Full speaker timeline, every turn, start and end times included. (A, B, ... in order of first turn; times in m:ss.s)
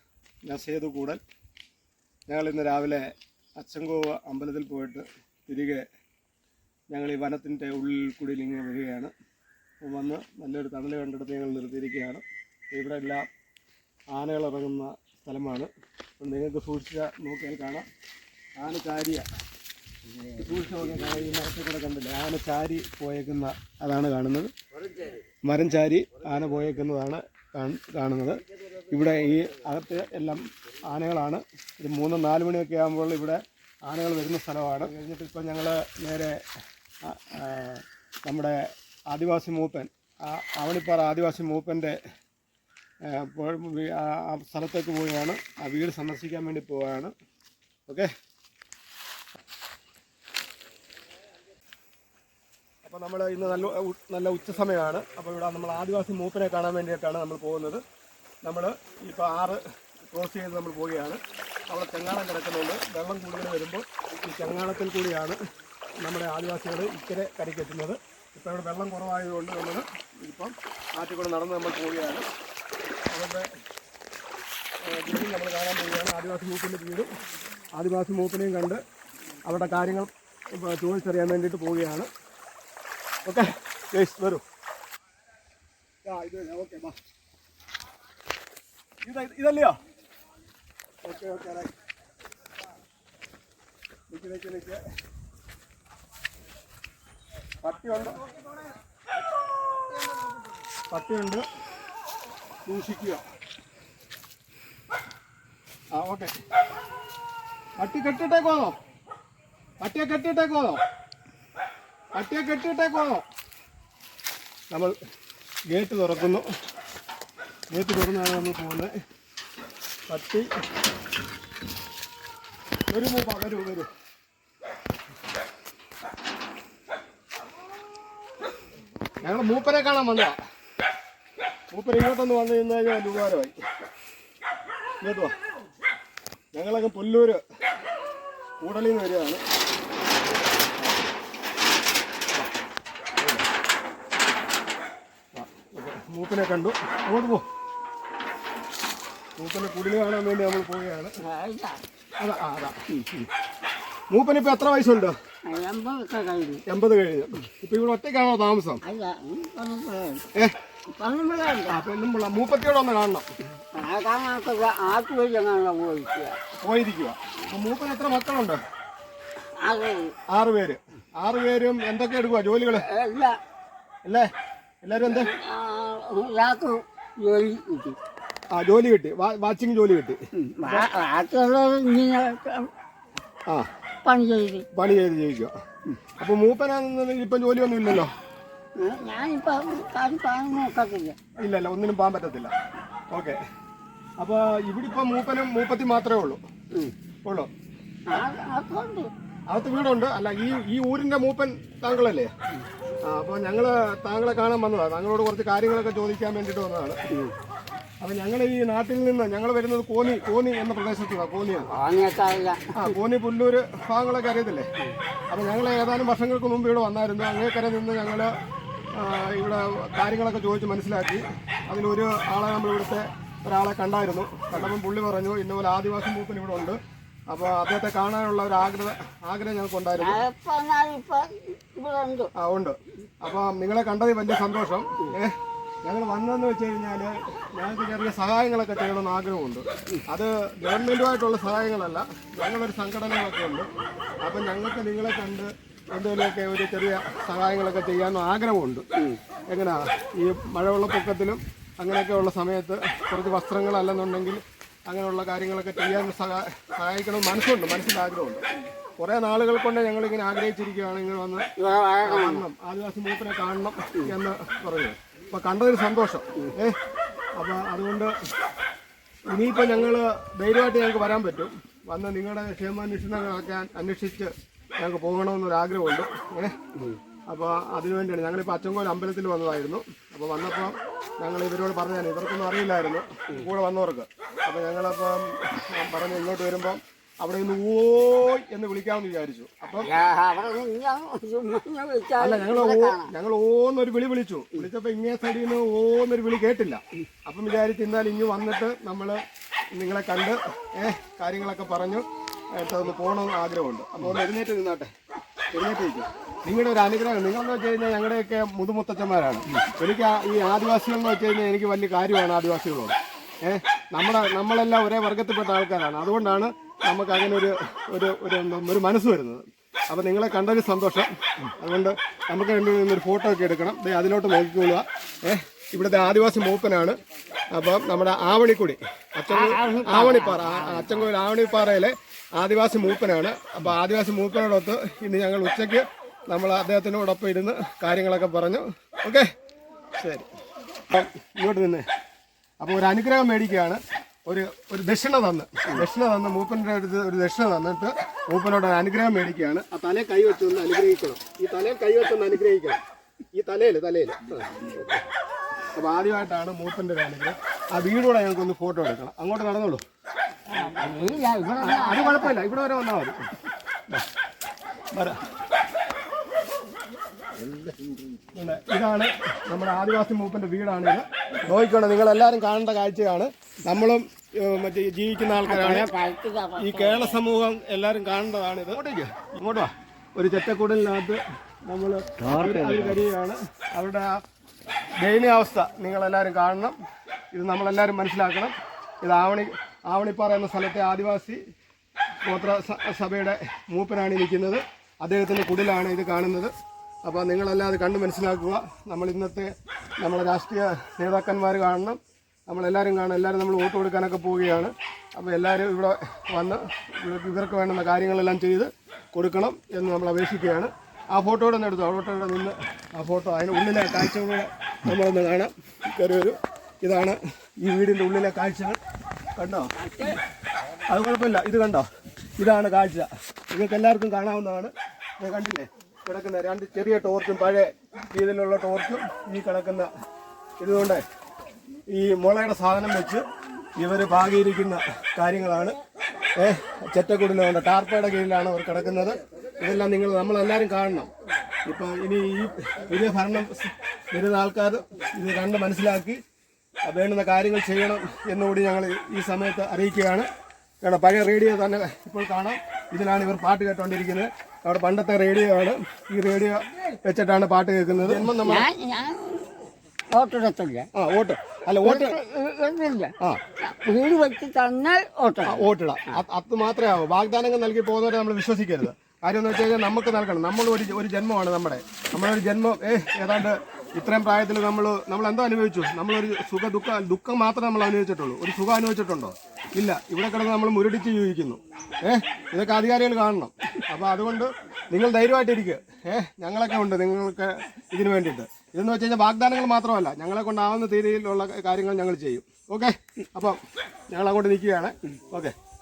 0:00.4-0:01.2 A
0:02.3-0:05.8 A
0:06.9-0:09.1 A
0:09.8-0:13.3 A
0:14.1-0:17.8 A
0:18.6-0:19.2 A
0:20.2-0:24.5 A
0:25.4-0:36.4 A
0:37.0-0:42.0 A
0:43.0-0:47.1 A
0:52.8-0:57.8 A
0:58.4-1:05.4 A
1:06.0-1:12.2 A
1:13.1-1:13.5 A
1:14.8-1:17.1 A
1:17.7-1:18.8 A
1:19.4-1:22.1 A
1:23.2-1:24.4 A
1:26.0-1:27.0 A
1:29.0-1:29.8 A
1:31.0-1:31.7 A
1:34.1-1:34.8 A
1:37.6-1:38.2 A
1:40.9-1:41.4 A
1:42.6-1:43.2 A
1:45.9-1:46.3 A
1:47.8-1:48.7 A
1:49.8-1:50.8 A
1:52.1-1:53.2 A
1:54.7-1:55.0 A
1:55.7-1:56.4 A
1:57.7-1:58.9 A
2:00.1-2:00.5 A
2:02.9-2:03.9 A
2:09.2-2:10.4 A
2:11.7-2:13.5 A
2:15.0-2:15.3 A
2:16.5-2:17.4 A
2:18.6-2:19.4 A
2:23.2-2:23.4 A
2:25.3-2:27.4 A
2:29.4-2:31.1 A
2:31.2-2:31.8 B
2:32.2-2:33.2 A
2:34.1-2:35.2 A
2:35.4-2:36.6 B
2:36.7-2:38.8 A
2:38.8-2:40.3 B
2:40.9-2:41.8 B
2:41.7-2:43.3 A
2:43.7-2:46.4 B
2:46.6-2:48.6 A
2:49.6-2:50.1 B
2:50.3-2:52.9 A
2:52.7-2:53.4 B
2:54.0-2:54.3 A
2:54.8-2:55.3 A
2:55.0-2:58.0 B
2:58.5-3:00.9 A
3:00.3-3:02.7 B
3:04.0-3:04.6 B
3:04.7-3:05.5 A
3:06.2-3:08.1 A
3:08.8-3:11.2 B
3:11.4-3:12.5 A
3:13.1-3:13.4 A
3:14.2-3:16.4 A
3:17.2-3:17.5 A
3:18.1-3:19.1 B
3:19.5-3:22.3 A
3:23.0-3:27.0 A
3:27.1-3:27.3 B
3:28.0-3:31.7 A
3:31.7-3:32.9 B
3:32.7-3:34.7 A
3:35.3-3:38.3 A
3:38.9-3:46.8 A
3:47.3-3:50.2 A
3:50.0-3:52.3 B
3:52.4-4:03.7 A
4:04.2-4:08.9 A
4:09.5-4:18.4 A
4:19.0-4:21.4 A
4:21.6-4:22.4 B
4:22.0-4:26.8 A
4:27.3-4:28.1 A
4:29.3-4:36.6 A
4:37.3-4:49.9 A
4:49.8-4:53.1 B
4:52.2-4:59.2 A
4:59.7-5:04.9 A
5:05.5-5:27.0 A
5:27.5-5:39.3 A
5:29.3-5:31.1 B
5:40.0-5:40.2 A
5:40.9-5:41.8 A
5:42.6-5:52.8 A
5:53.3-5:55.0 A
5:55.7-5:59.8 A
6:00.5-6:02.4 B
6:01.6-6:03.3 A
6:04.9-6:05.2 A
6:07.5-6:07.9 B
6:08.3-6:15.9 A
6:15.4-6:17.2 B
6:16.6-6:24.2 A
6:25.0-6:26.7 A
6:27.3-6:31.4 A
6:32.2-6:58.8 A
6:59.4-7:00.2 A
6:59.8-7:00.2 B
7:00.8-7:01.9 A
7:02.4-7:09.9 A
7:10.6-7:11.0 A
7:11.9-7:13.2 A
7:13.8-7:15.8 A
7:16.4-7:21.1 A
7:21.6-7:26.2 A
7:26.8-7:30.2 A
7:30.8-7:38.7 A
7:38.2-7:39.4 B
7:40.1-7:40.9 B
7:40.9-7:42.2 A
7:41.7-7:46.2 B
7:45.4-8:15.5 A